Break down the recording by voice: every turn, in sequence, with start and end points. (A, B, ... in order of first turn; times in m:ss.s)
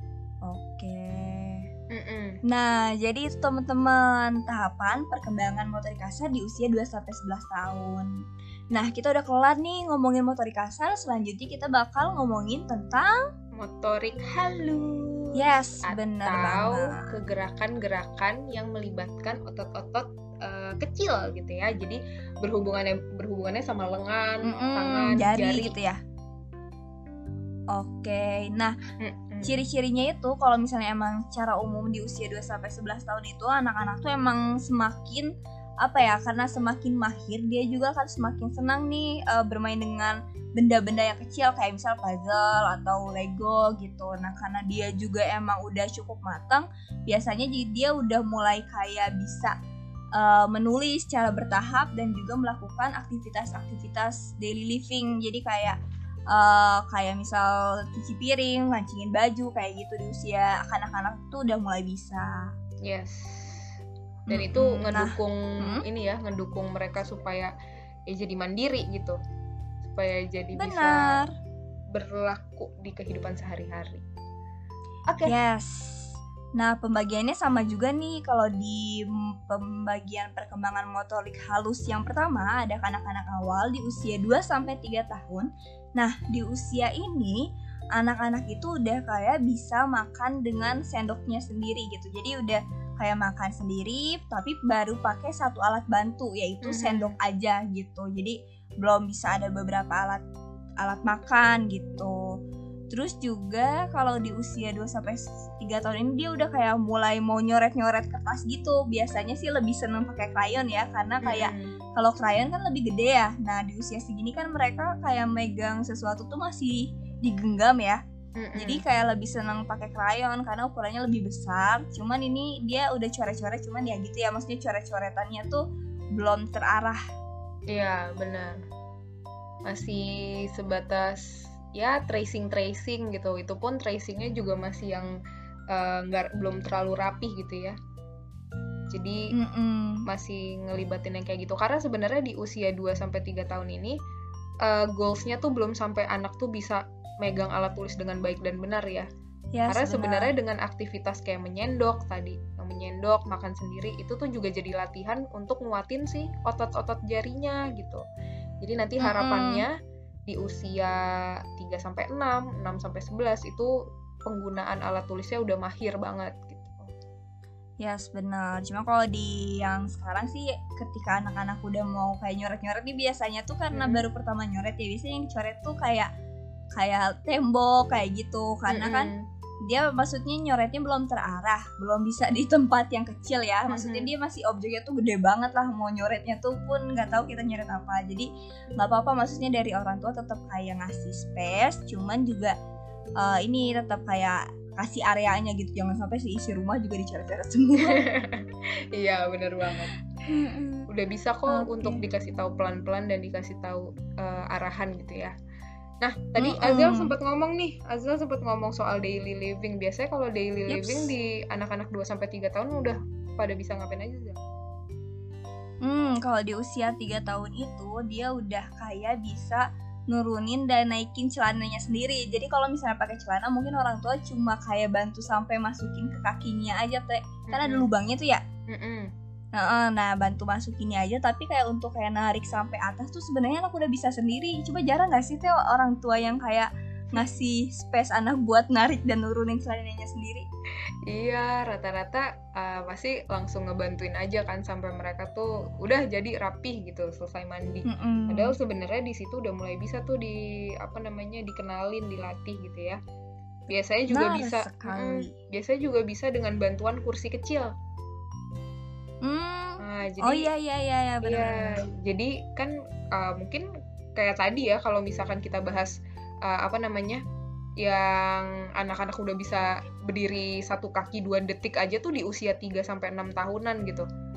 0:00.4-0:01.7 A
0:01.9-0:02.4 B
0:02.4-0:08.2 A
0:08.7-0:13.2 A
0:13.6-0:25.8 B
0:15.4-0:17.0 A
0:24.4-0:26.0 A
0:27.7-0:28.8 A
0:29.0-0:29.6 B
0:29.4-0:35.3 A
0:35.8-0:49.5 A
0:50.2-0:55.8 A
0:56.3-1:02.5 A
1:02.8-1:03.8 B
1:04.3-1:05.8 A
1:04.3-1:07.5 B
1:08.1-1:09.2 B
1:09.8-1:11.2 B
1:10.6-1:11.3 A
1:11.9-1:14.0 B
1:15.1-1:15.3 B
1:15.2-1:27.4 A
1:28.0-1:40.2 A
1:36.6-1:37.2 B
1:40.8-1:42.4 A
1:42.9-1:58.0 A
1:51.2-1:51.7 B
1:58.4-1:58.8 B
1:58.6-2:05.6 A
2:06.1-2:07.0 A
2:07.7-2:08.6 B
2:09.6-2:15.1 B
2:15.7-2:17.8 B
2:18.9-2:19.3 B
2:19.3-2:20.0 A
2:20.1-2:24.0 B
2:24.6-2:29.1 B
2:29.5-2:30.3 A
2:29.7-2:38.0 B
2:38.6-2:39.7 B
2:39.0-2:39.6 A
2:40.3-2:43.7 B
2:44.2-2:46.9 B
2:47.8-2:56.1 A
2:53.7-2:54.0 B
2:56.8-2:59.1 A
2:58.7-2:59.2 B
2:59.6-3:12.6 A
3:03.7-3:04.1 B
3:13.2-3:18.0 A
3:17.8-3:19.9 B
3:20.3-3:20.9 A
3:20.9-3:25.3 B
3:21.5-3:22.0 A
3:26.0-3:34.4 B
3:26.4-3:27.1 A
3:30.7-3:31.1 A
3:35.8-3:48.4 A
3:47.5-3:47.9 B
3:48.7-3:49.1 B
3:49.5-4:00.4 A
4:01.0-4:13.0 B
4:07.8-4:08.6 A
4:13.7-4:17.7 B
4:14.1-4:15.3 A
4:19.2-4:21.8 A
4:19.8-4:20.5 B
4:21.2-4:27.2 B
4:27.8-4:34.0 B